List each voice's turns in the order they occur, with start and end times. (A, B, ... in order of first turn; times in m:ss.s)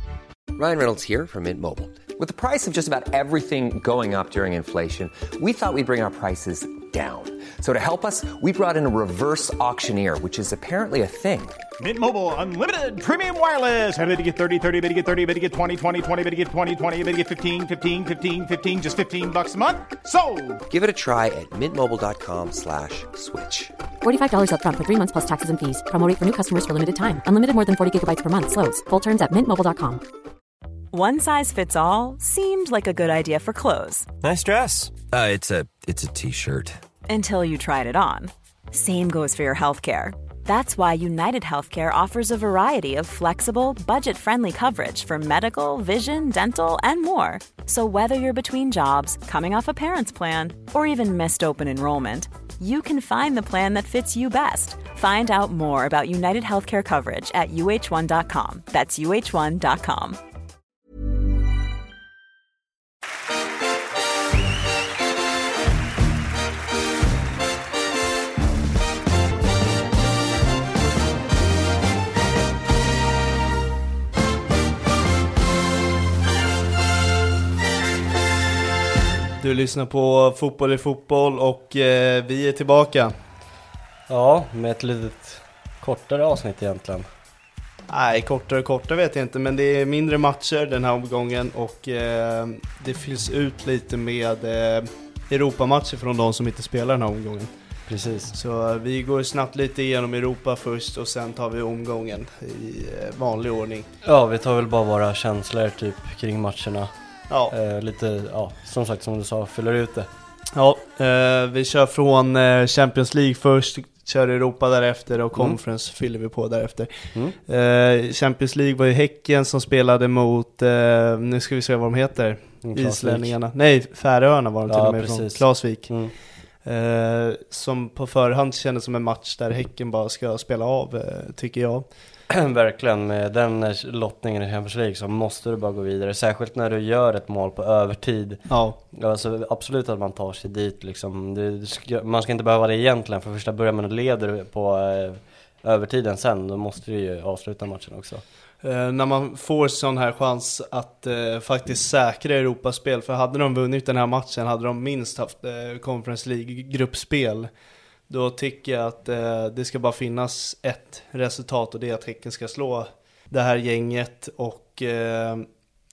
0:00.6-0:11.6 A
0:11.8-0:20.6 B
0:20.7-0:23.7 A
0:24.0-0:30.0 C
0:30.9-0:34.1 D
0:34.2-0:36.8 E
0:37.1-1:00.2 D
1:19.4-1:23.1 F
1:24.1-1:27.1 G
1:27.9-1:37.5 F
1:37.9-1:38.4 G
1:38.3-1:43.9 F
1:44.0-1:46.9 G
1:47.5-1:50.1 G
1:50.6-2:06.0 F
2:02.6-2:03.4 G
2:04.7-2:06.1 G
2:06.6-2:11.9 F
2:12.3-2:28.2 G
2:18.5-2:18.8 F
2:28.6-2:37.5 F
2:38.1-2:45.5 F